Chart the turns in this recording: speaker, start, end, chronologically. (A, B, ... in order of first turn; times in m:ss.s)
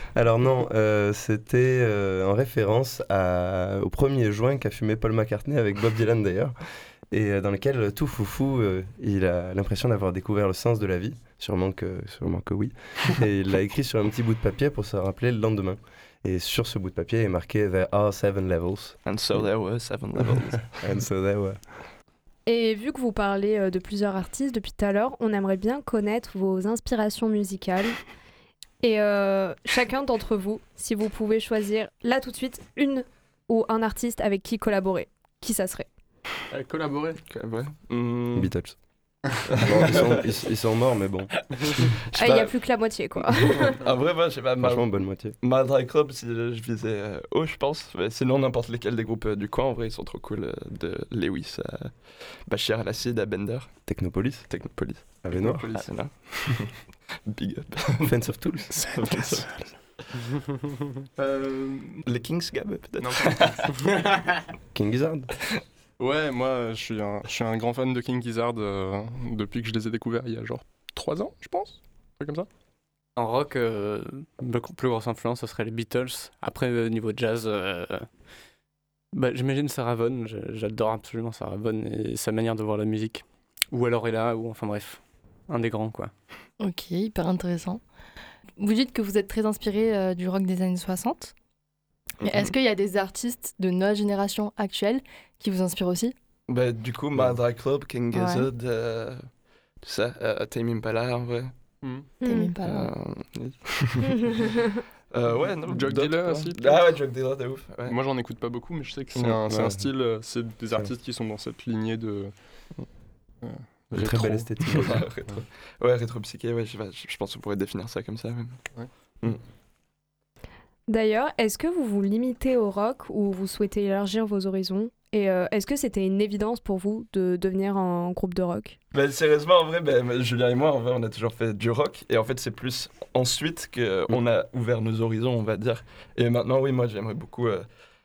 0:00.1-0:06.6 A
0:07.1-0:19.5 A
0:19.1-0:20.8 B
0:20.2-0:21.6 A
0:22.5-0:28.0 C
0:28.8-0:35.9 C
0:36.5-0:37.2 D
0:37.3-0:38.8 B
0:38.4-0:38.8 A
0:39.5-0:40.2 B
0:39.6-0:41.4 A
0:41.8-0:42.5 B
0:42.2-0:43.8 C
0:43.6-1:00.1 B
0:44.6-0:45.4 A
0:53.9-0:54.5 A
0:55.2-0:55.7 A
0:55.3-0:55.9 D
0:58.0-0:58.9 A
0:58.8-0:59.4 D
1:01.2-1:02.0 D
1:02.1-1:03.7 B
1:03.0-1:03.6 D
1:04.7-1:05.3 A
1:06.0-1:12.5 D
1:13.2-1:18.1 E
1:19.1-1:26.1 E
1:26.6-1:27.8 F
1:28.6-1:31.3 F
1:32.2-1:32.5 B
1:32.2-1:36.2 F
1:36.5-1:39.3 B
1:38.2-1:38.5 F
1:39.8-1:41.5 B
1:41.8-1:42.1 D
1:42.2-1:42.5 C
1:42.2-1:42.9 F
1:42.6-1:44.4 B
1:45.1-1:48.0 B
1:45.7-1:46.9 D
1:47.8-1:52.9 D
1:49.5-1:49.9 A
1:53.4-1:55.3 D
1:53.9-1:55.0 A
1:54.7-1:58.6 B
2:00.9-2:08.8 C
2:08.9-2:17.7 B